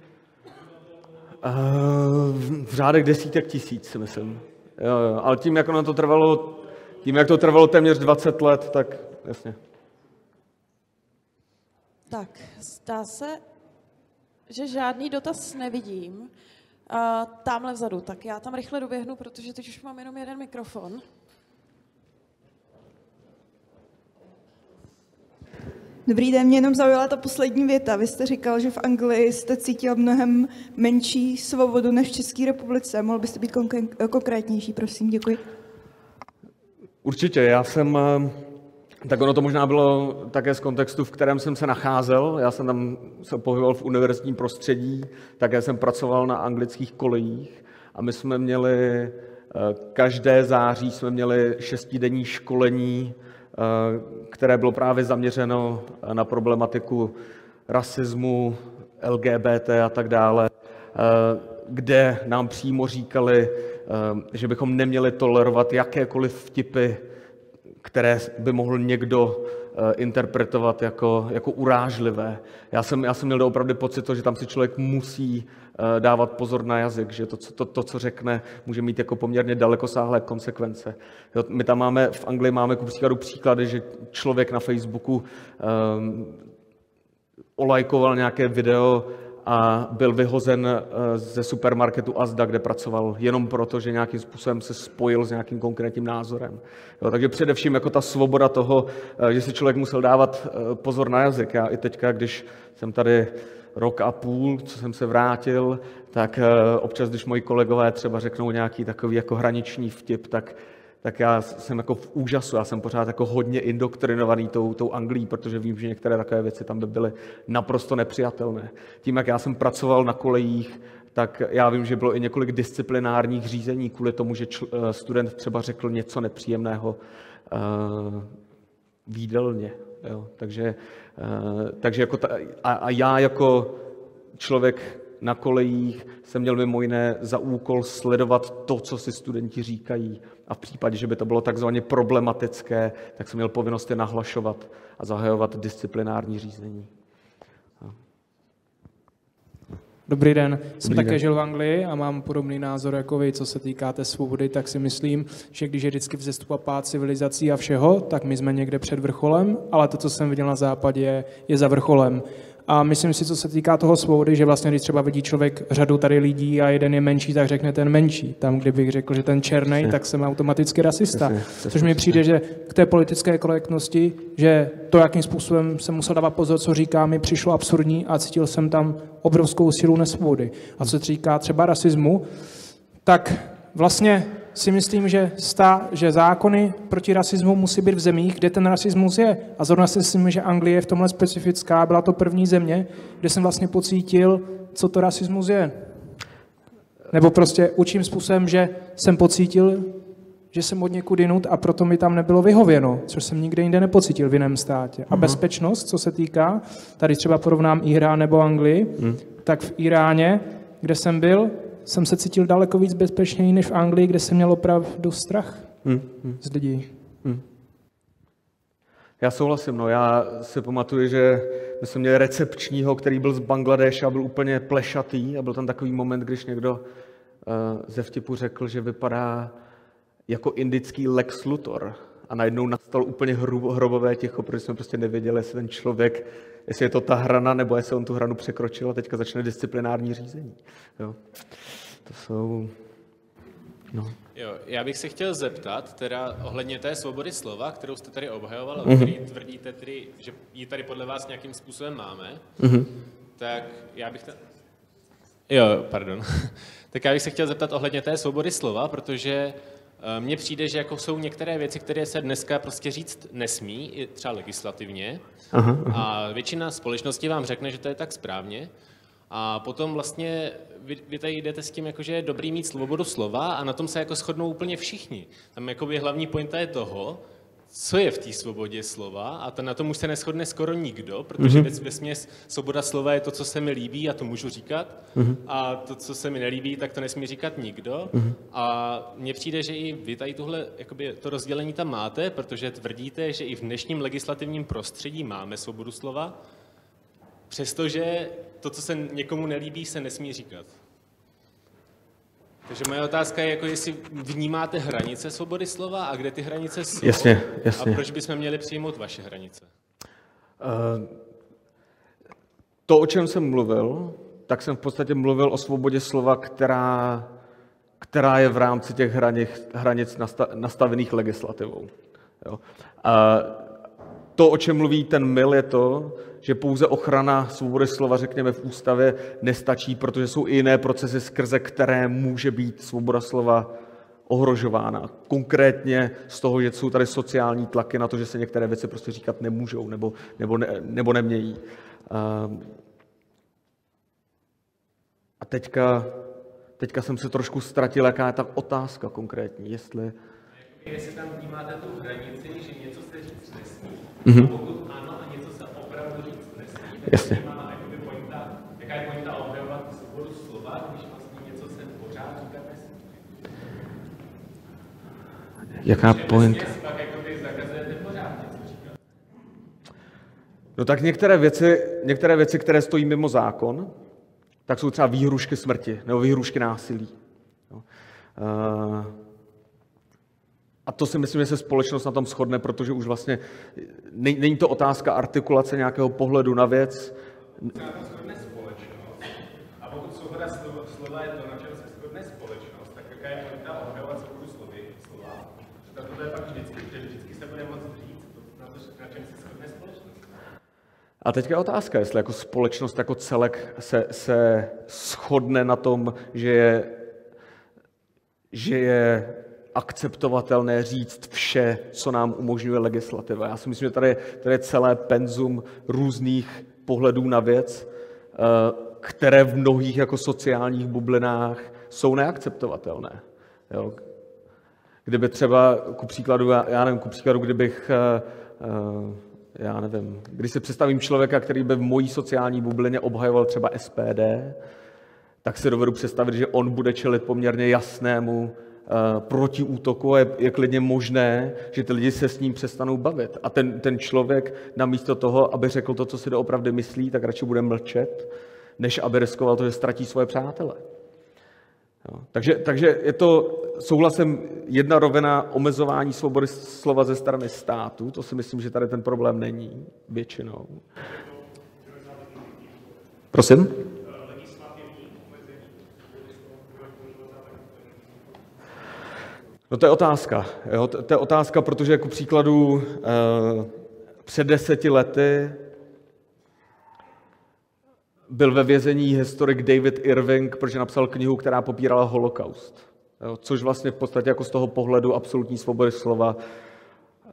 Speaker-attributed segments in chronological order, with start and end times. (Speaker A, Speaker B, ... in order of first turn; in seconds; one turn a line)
Speaker A: 1.4-9.6
Speaker B: 12.1-13.4
Speaker B: 14.5-16.3
Speaker B: 16.9-21.0
Speaker C: 26.1-35.4
Speaker A: 37.0-38.4
Speaker A: 39.0-57.1
Speaker A: 57.7-67.0
Speaker A: 67.8-86.4
Speaker A: 87.6-128.3
Speaker A: 129.1-133.8
Speaker A: 134.4-146.9
Speaker D: 150.1-182.5
Speaker A: 150.8-151.2
Speaker A: 171.1-172.2
Speaker D: 183.0-195.9
Speaker D: 197.1-215.8
Speaker A: 205.1-205.4
Speaker A: 215.8-216.4
Speaker D: 216.4-216.9
Speaker A: 219.2-226.8
Speaker A: 227.4-229.6
Speaker A: 230.3-241.2
Speaker A: 242.1-242.8
Speaker E: 244.3-252.5
Speaker A: 248.8-249.1
Speaker A: 252.6-252.9
Speaker E: 253.4-254.4
Speaker E: 255.5-265.2
Speaker A: 265.5-266.0
Speaker E: 265.9-268.7
Speaker E: 269.3-296.4
Speaker A: 281.4-281.7
Speaker E: 297.5-300.8
Speaker E: 302.7-309.7
Speaker A: 307.0-308.0
Speaker A: 310.6-311.2
Speaker A: 312.9-317.3
Speaker A: 318.0-321.9
Speaker A: 322.4-323.7
Speaker A: 324.4-333.7
Speaker A: 334.3-342.7
Speaker A: 345.4-346.3
Speaker A: 346.8-350.1
Speaker E: 350.6-363.0
Speaker A: 354.2-354.5
Speaker A: 357.1-357.4
Speaker A: 365.8-366.7
Speaker E: 365.9-369.0
Speaker A: 370.8-373.9
Speaker A: 374.7-377.1
Speaker A: 378.4-379.1
Speaker A: 380.9-387.7
Speaker E: 387.6-400.2
Speaker A: 401.2-407.0
Speaker A: 408.5-424.0
Speaker A: 425.1-434.6
Speaker A: 435.4-450.8
Speaker A: 452.1-460.8
Speaker A: 463.3-463.8
Speaker D: 464.4-465.6
Speaker D: 466.5-467.6
Speaker A: 469.7-473.7
Speaker A: 474.3-475.6
Speaker A: 478.3-486.4